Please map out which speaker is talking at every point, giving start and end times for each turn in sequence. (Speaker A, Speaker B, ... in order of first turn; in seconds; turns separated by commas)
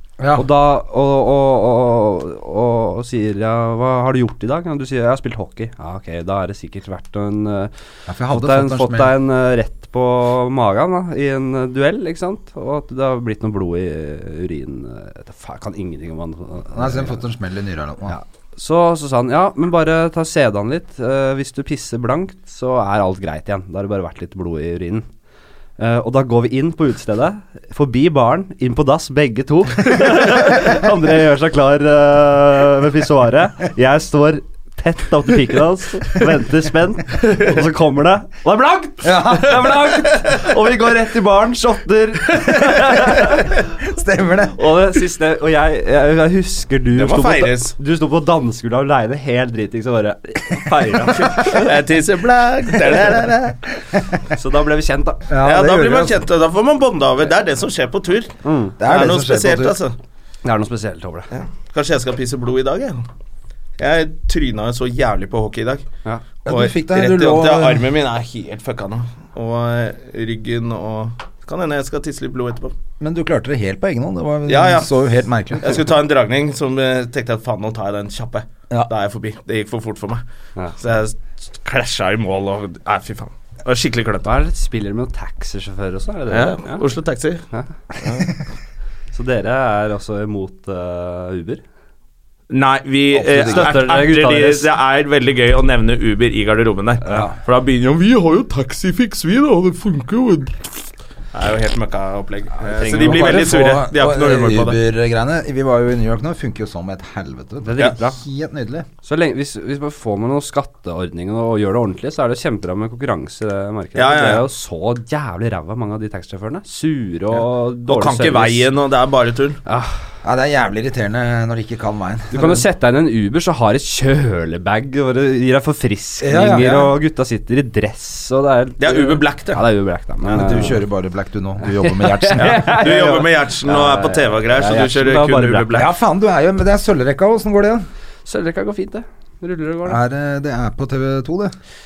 Speaker A: 0.2-0.5, Speaker B: 0.3-7.7, Speaker A: 8.1-9.1, Speaker B: 8.3-17.2, Speaker A: 16.7-18.2, Speaker B: 18.1-25.1, Speaker B: 25.8-43.5, Speaker A: 39.0-40.1, Speaker A: 43.7-44.6, Speaker B: 44.5-51.7, Speaker C: 47.0-47.8, Speaker C: 51.3-53.6, Speaker B: 54.3-55.3, Speaker A: 55.3-56.2, Speaker C: 55.4-60.0, Speaker B: 58.4-58.8, Speaker A: 58.8-59.8, Speaker B: 60.4-61.3, Speaker C: 61.3-63.0, Speaker C: 63.8-65.8, Speaker A: 66.5-67.9, Speaker C: 66.5-72.7, Speaker A: 73.0-75.8, Speaker C: 74.5-75.0, Speaker C: 75.6-80.2, Speaker C: 80.8-84.3, Speaker B: 84.2-86.8, Speaker C: 86.3-87.5, Speaker C: 88.0-88.3, Speaker B: 89.1-91.6, Speaker C: 92.5-100.7, Speaker A: 93.1-93.8, Speaker B: 93.4-94.7, Speaker A: 97.1-97.3, Speaker C: 101.3-104.8, Speaker B: 102.6-103.6, Speaker A: 102.9-108.9, Speaker B: 107.6-108.2, Speaker B: 109.0-118.7, Speaker C: 114.0-114.5, Speaker C: 117.9-119.6, Speaker B: 119.7-120.0, Speaker A: 120.2-122.7, Speaker B: 122.3-130.8, Speaker A: 126.2-127.0, Speaker C: 128.8-129.6, Speaker A: 130.2-132.8, Speaker B: 131.6-135.8, Speaker C: 132.4-135.9, Speaker A: 135.7-137.9, Speaker B: 138.3-140.0, Speaker A: 139.8-141.6